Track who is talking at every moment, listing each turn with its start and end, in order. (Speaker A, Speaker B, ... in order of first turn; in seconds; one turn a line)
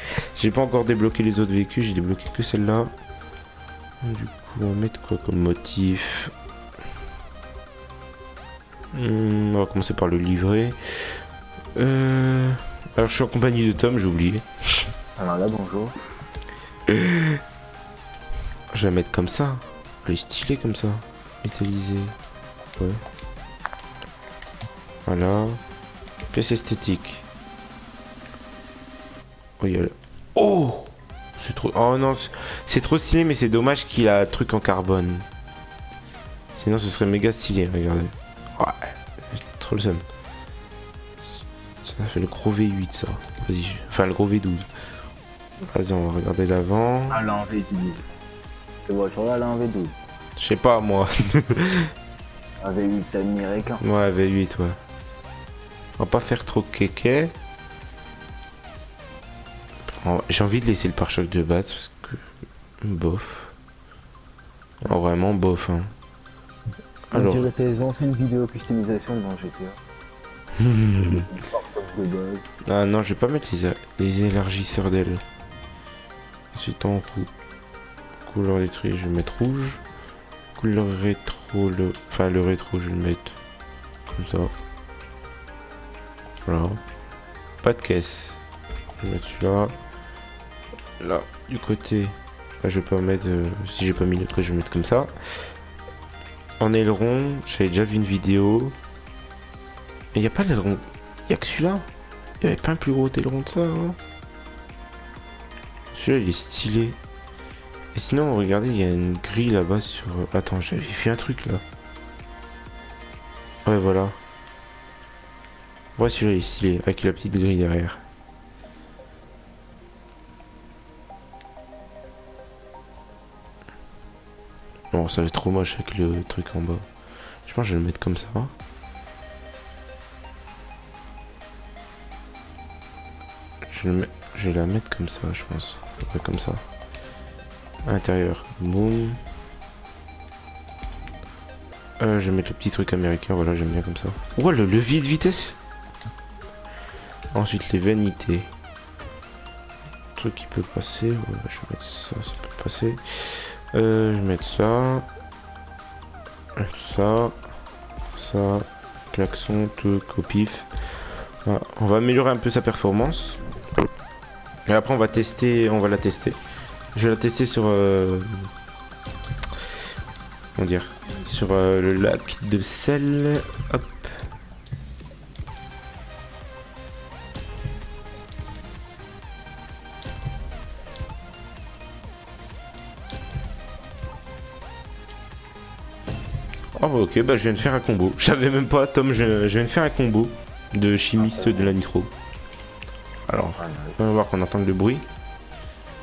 Speaker A: 0.3-2.9
Speaker A: 4.0-6.3
Speaker A: 8.9-10.8
Speaker A: 11.7-14.4
Speaker B: 15.2-15.9
Speaker A: 16.9-17.4
Speaker A: 18.7-22.1
Speaker A: 25.1-25.6
Speaker A: 26.3-27.2
Speaker A: 29.6-35.2
Speaker A: 36.6-40.0
Speaker A: 41.2-44.7
Speaker A: 45.6-47.2
Speaker B: 47.1-48.0
Speaker B: 48.9-49.9
Speaker A: 50.4-51.9
Speaker B: 52.6-53.8
Speaker A: 53.8-54.8
Speaker A: 56.0-57.3
Speaker A: 59.9-62.2
Speaker A: 62.8-63.5
Speaker A: 64.8-65.9
Speaker A: 67.1-67.5
Speaker B: 67.1-69.8
Speaker A: 70.6-71.2
Speaker B: 71.0-72.4
Speaker A: 72.6-75.2
Speaker A: 76.5-77.3
Speaker A: 78.2-79.8
Speaker A: 80.5-83.4
Speaker A: 84.1-84.5
Speaker A: 86.5-86.8
Speaker A: 87.6-88.4
Speaker A: 89.0-89.7
Speaker A: 91.0-95.1
Speaker A: 96.6-98.8
Speaker A: 100.1-101.8
Speaker A: 102.4-104.0
Speaker A: 105.9-107.0
Speaker A: 107.9-111.6
Speaker A: 113.6-114.2
Speaker A: 116.0-118.0
Speaker A: 124.9-126.9
Speaker A: 127.5-128.5
Speaker A: 133.7-136.6
Speaker A: 137.9-139.2
Speaker A: 142.0-145.6
Speaker A: 147.3-148.5
Speaker A: 150.2-155.1
Speaker A: 156.6-157.4
Speaker A: 158.1-160.7
Speaker A: 161.4-163.4
Speaker A: 164.7-166.4
Speaker A: 166.9-168.5
Speaker A: 170.6-174.1
Speaker A: 186.8-192.1
Speaker B: 191.2-191.7
Speaker A: 193.3-195.1
Speaker B: 193.6-194.0